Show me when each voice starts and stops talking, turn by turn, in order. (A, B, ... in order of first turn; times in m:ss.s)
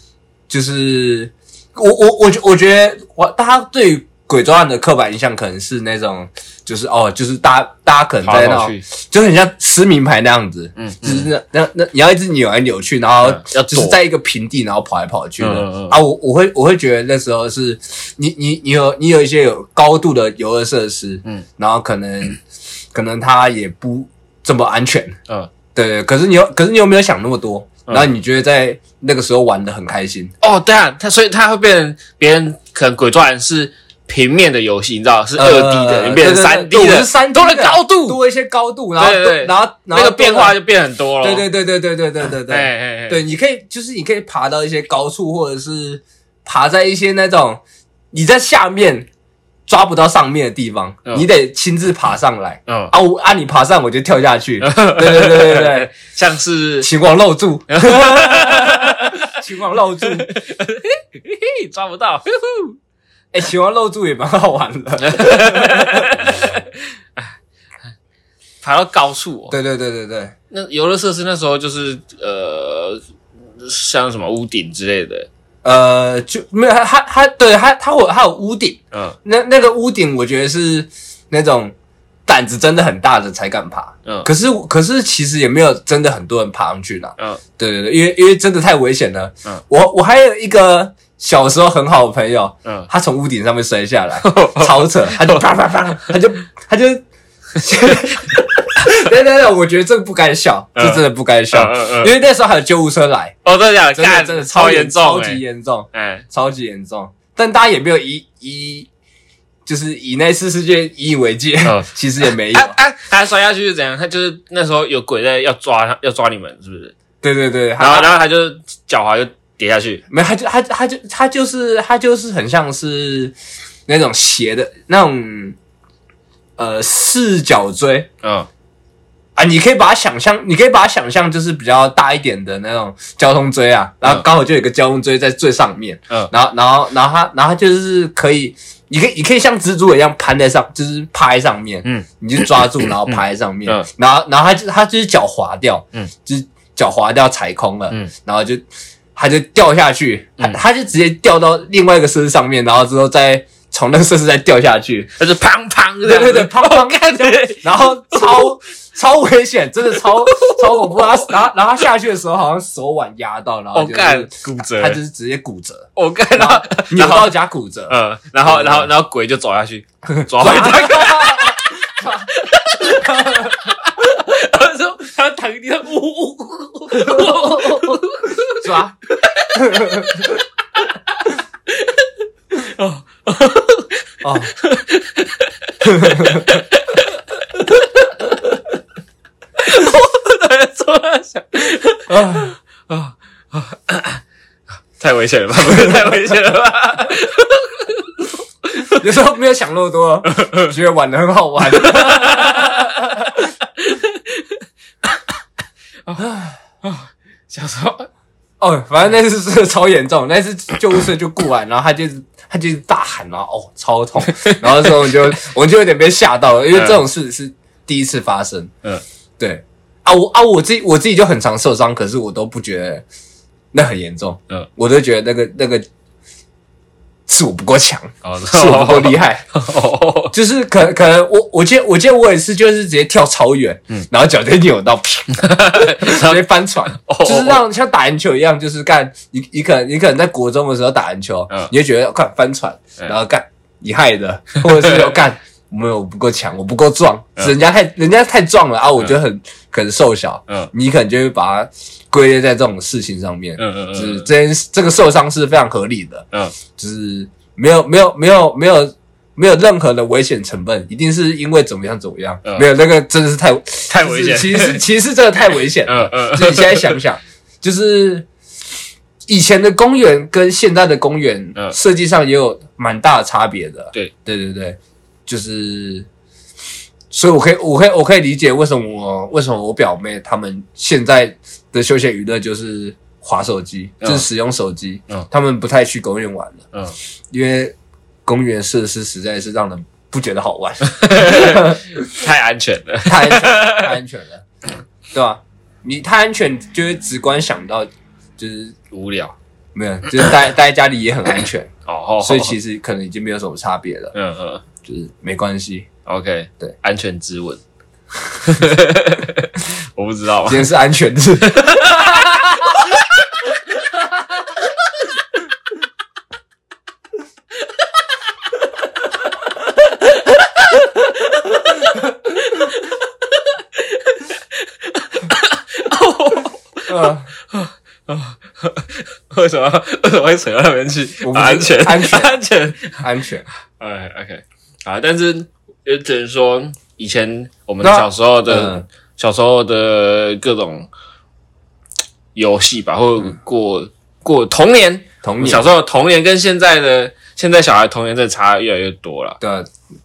0:00.5-0:22.4 A
0:08.2-0:08.8 B
0:10.8-0:11.3 B
0:13.2-0:14.0 B
0:15.4-0:16.0 B
0:22.9-0:25.2 A
0:25.8-0:30.3 A
0:30.4-0:38.2 B
0:35.4-0:40.6 A
0:39.0-0:41.5 B
0:41.2-0:49.1 A
0:42.5-0:43.2 B
0:49.7-0:55.9 A
0:52.7-0:52.9 B
0:54.6-0:56.9 B
0:56.8-1:00.3 A
0:57.7-0:59.4 B
1:00.0-1:02.8 B
1:03.3-1:06.4 A
1:05.0-1:07.3 B
1:08.6-1:09.6 B
1:09.5-1:10.3 A
1:10.5-1:13.0 B
1:13.6-1:15.3 B
1:15.6-1:21.7 A
1:22.3-1:37.0 A
1:34.2-1:35.5 B
1:37.6-1:43.4 A
1:37.8-1:38.4 B
1:40.8-1:42.2 B
1:43.4-1:46.2 B
1:43.9-1:48.9 A
1:49.7-1:52.8 A
1:51.6-1:57.0 B
1:57.2-1:58.2 A
1:57.8-2:00.0 B
2:00.1-2:03.4 A
2:03.9-2:05.6 A
2:06.6-2:08.1 A
2:08.2-2:08.5 B
2:09.4-2:28.6 A
2:22.8-2:23.9 B
2:29.2-2:35.1 A
2:35.2-2:38.5 B
2:36.0-2:48.9 A
2:40.2-2:41.3 B
2:43.7-2:45.0 B
2:46.0-2:47.4 B
2:47.9-3:08.3 B
2:50.1-2:53.7 A
2:56.9-2:58.0 A
2:58.5-2:59.0 A
2:59.5-3:00.3 A
3:04.2-3:04.5 A
3:05.8-3:06.6 A
3:09.6-3:14.2 B
3:12.1-3:12.6 A
3:15.0-3:19.0 B
3:15.6-3:16.4 A
3:18.9-3:23.4 A
3:20.3-3:20.7 B
3:21.7-3:24.6 B
3:26.2-3:26.6 A
3:26.8-3:28.1 B
3:28.6-3:38.7 A
3:34.2-3:35.2 B
3:36.7-3:37.0 B
3:39.4-3:43.0 A
3:43.7-3:45.8 A
3:47.3-3:49.4 A
3:48.2-3:50.3 B
3:50.3-4:28.3 A
3:55.3-3:57.6 B
4:04.6-4:05.2 B
4:13.6-4:14.3 B
4:23.9-4:24.8 B
4:25.8-4:27.0 B
4:29.3-4:36.1 A
4:37.1-4:46.6 A
4:47.3-4:47.7 A
4:48.3-4:51.9 A
4:50.8-4:54.0 B
4:53.1-4:54.4 A
4:55.1-4:58.8 A
4:58.9-4:59.4 B
4:59.8-5:01.7 A
5:01.9-5:02.6 B
5:02.2-5:04.1 A
5:04.1-5:04.6 B
5:04.8-5:05.9 A
5:06.1-5:07.6 B
5:08.4-5:10.7 B
5:10.5-5:12.7 A
5:11.5-5:12.4 B
5:20.0-5:20.9 B
5:21.7-5:33.0 B
5:26.9-5:27.3 A
5:31.2-5:32.4 A
5:33.0-5:33.5 A
5:33.8-5:40.9 B
5:37.8-5:38.9 A
5:42.4-5:49.4 B
5:45.2-5:45.6 A
5:49.4-5:49.7 A